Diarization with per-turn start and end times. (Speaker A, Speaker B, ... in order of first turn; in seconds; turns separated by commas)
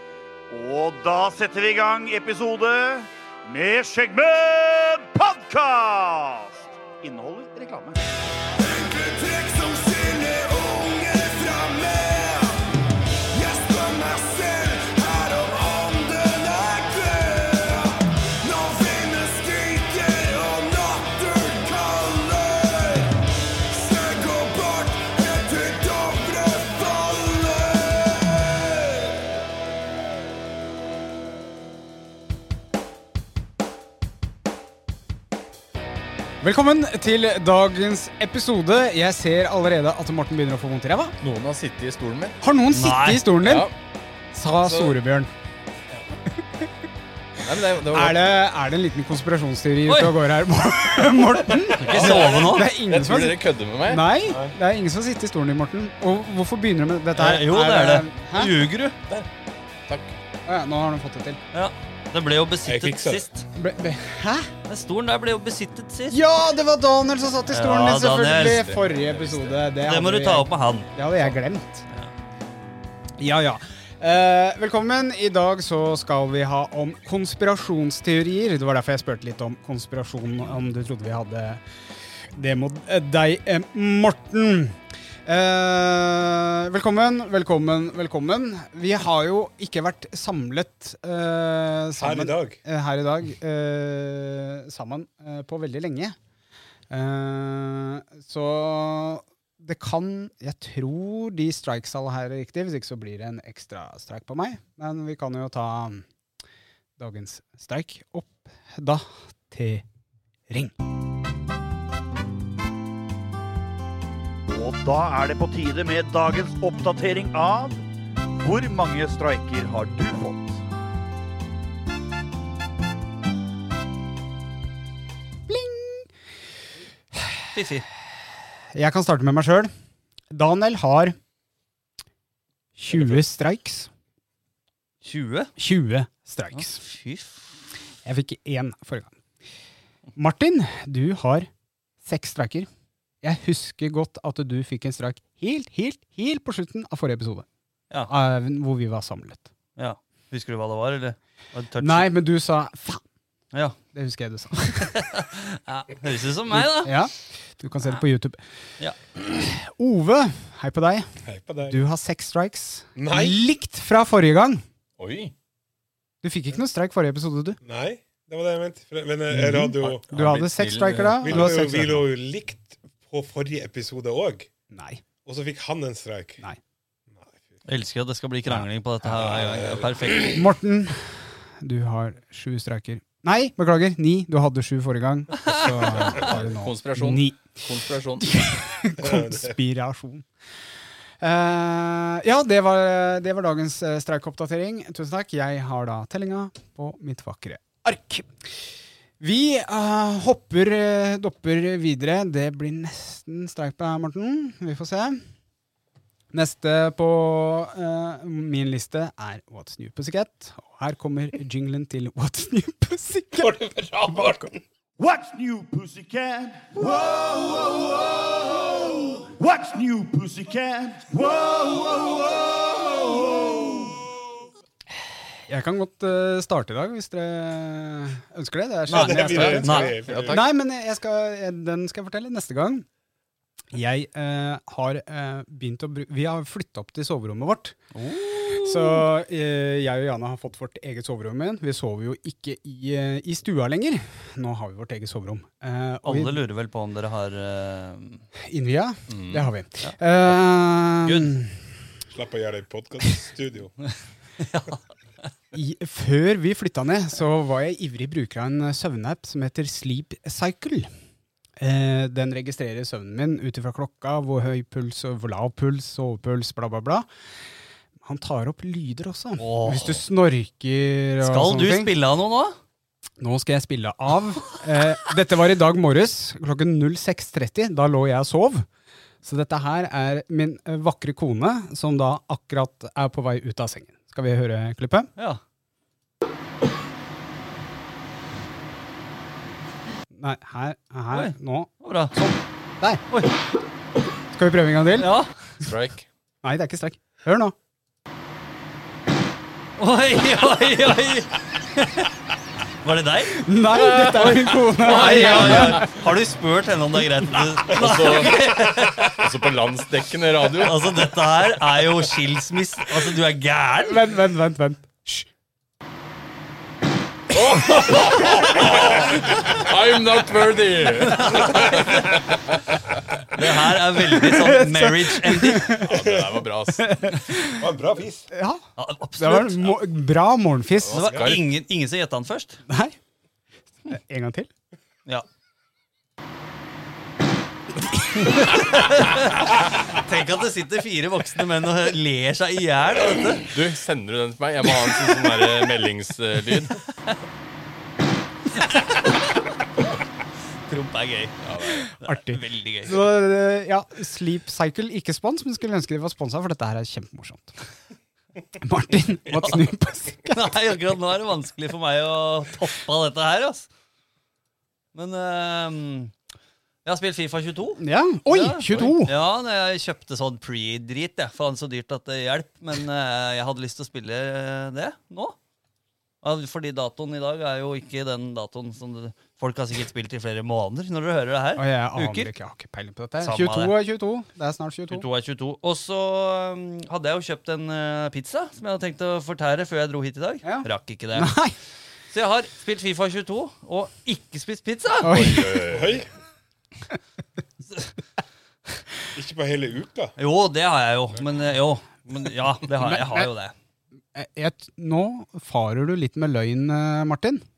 Speaker A: 0.5-8.0, Speaker B: 8.6-12.6, Speaker B: 13.3-29.1, Speaker C: 36.4-41.1, Speaker D: 41.2-42.4, Speaker C: 42.4-43.7, Speaker E: 42.7-43.3, Speaker D: 43.4-43.7, Speaker C: 44.3-45.3, Speaker D: 44.6-45.0, Speaker D: 47.4-48.4, Speaker C: 47.8-58.5, Speaker E: 49.9-50.1, Speaker E: 51.8-52.7, Speaker D: 51.8-54.0, Speaker F: 54.3-54.5, Speaker E: 57.1-59.0, Speaker D: 59.9-60.2, Speaker C: 60.4-61.4, Speaker E: 61.5-63.4, Speaker F: 62.6-63.2, Speaker C: 63.5-64.5, Speaker E: 64.7-66.2, Speaker C: 66.1-71.9, Speaker E: 67.5-68.7, Speaker D: 68.4-69.6, Speaker E: 69.8-70.9, Speaker C: 73.2-81.6, Speaker C: 82.3-96.2, Speaker F: 92.0-92.6, Speaker C: 96.9-106.0, Speaker C: 107.0-109.8, Speaker C: 110.5-110.7, Speaker A: 114.5-117.8, Speaker A: 118.4-120.6, Speaker C: 125.5-126.1, Speaker C: 127.2-127.4, Speaker E: 127.5-127.8, Speaker C: 128.7-129.7, Speaker C: 130.3-131.1, Speaker C: 132.8-133.9, Speaker E: 135.0-135.5, Speaker C: 135.6-136.8, Speaker E: 136.6-137.4, Speaker C: 138.0-139.2, Speaker C: 140.2-141.5, Speaker C: 142.0-142.7, Speaker C: 143.2-147.4, Speaker C: 148.1-149.5, Speaker E: 149.8-152.1, Speaker C: 151.8-153.0, Speaker C: 153.9-155.0, Speaker E: 154.8-156.9, Speaker C: 156.5-158.4, Speaker C: 159.2-161.1, Speaker F: 161.2-161.8, Speaker C: 161.7-164.6, Speaker F: 162.9-163.4, Speaker D: 165.0-165.3, Speaker C: 166.2-167.6, Speaker F: 167.6-170.0, Speaker C: 169.3-172.0, Speaker D: 169.8-171.7, Speaker F: 171.0-174.5, Speaker C: 174.7-175.0, Speaker F: 175.2-176.4, Speaker F: 177.1-177.5, Speaker E: 177.7-180.3, Speaker F: 179.0-180.4, Speaker C: 180.3-187.6, Speaker D: 186.0-188.3, Speaker C: 188.2-190.2, Speaker F: 189.0-189.5, Speaker C: 191.2-198.3, Speaker C: 199.2-205.2, Speaker C: 206.3-213.5, Speaker F: 213.4-214.6, Speaker C: 214.1-214.5, Speaker A: 215.0-223.9, Speaker C: 225.5-232.8, Speaker E: 228.9-230.0, Speaker F: 228.9-230.4, Speaker D: 229.3-230.4, Speaker C: 233.7-237.8, Speaker E: 237.9-239.0, Speaker C: 238.5-246.4, Speaker E: 246.0-248.2, Speaker C: 248.4-251.7, Speaker D: 249.1-249.5, Speaker E: 251.1-251.3, Speaker F: 252.1-253.8, Speaker E: 254.4-254.8, Speaker C: 255.5-260.9, Speaker C: 261.6-267.1, Speaker C: 268.0-271.9, Speaker E: 269.4-270.0, Speaker E: 271.2-272.6, Speaker C: 273.2-278.6, Speaker C: 279.2-285.1, Speaker C: 290.1-293.0, Speaker E: 291.1-292.1, Speaker C: 294.3-295.1, Speaker E: 295.0-295.3, Speaker D: 295.6-296.1, Speaker C: 296.4-297.5, Speaker E: 299.8-302.2, Speaker E: 302.8-303.4, Speaker C: 303.4-305.9, Speaker D: 303.7-306.0, Speaker E: 304.8-309.3, Speaker D: 307.7-308.4, Speaker D: 309.1-311.1, Speaker E: 310.5-314.0, Speaker C: 313.8-315.3, Speaker D: 317.3-322.6, Speaker F: 317.6-318.6, Speaker E: 321.0-322.2, Speaker E: 323.3-325.7, Speaker C: 324.1-325.9, Speaker D: 325.8-327.0, Speaker F: 325.9-326.4, Speaker C: 326.8-327.6, Speaker F: 327.6-328.3, Speaker C: 328.3-328.6, Speaker E: 328.8-329.8, Speaker C: 329.2-331.2, Speaker D: 330.8-331.5, Speaker E: 330.9-332.6, Speaker C: 332.7-333.0, Speaker C: 333.9-334.5, Speaker E: 338.1-343.5, Speaker D: 343.5-346.8, Speaker E: 348.5-349.4, Speaker E: 350.7-353.0, Speaker D: 351.4-351.9, Speaker C: 352.1-357.6, Speaker C: 358.6-360.5, Speaker E: 360.3-363.7, Speaker E: 364.9-366.1, Speaker E: 366.8-375.4, Speaker C: 367.8-369.1, Speaker E: 376.2-382.3, Speaker C: 381.6-385.1, Speaker E: 383.2-383.7, Speaker E: 384.9-391.3, Speaker C: 390.4-391.5, Speaker E: 392.1-395.4, Speaker C: 395.0-395.5, Speaker D: 395.0-396.0, Speaker F: 395.7-396.1, Speaker F: 399.1-400.1, Speaker E: 400.2-403.5, Speaker C: 402.8-403.3, Speaker C: 404.1-407.4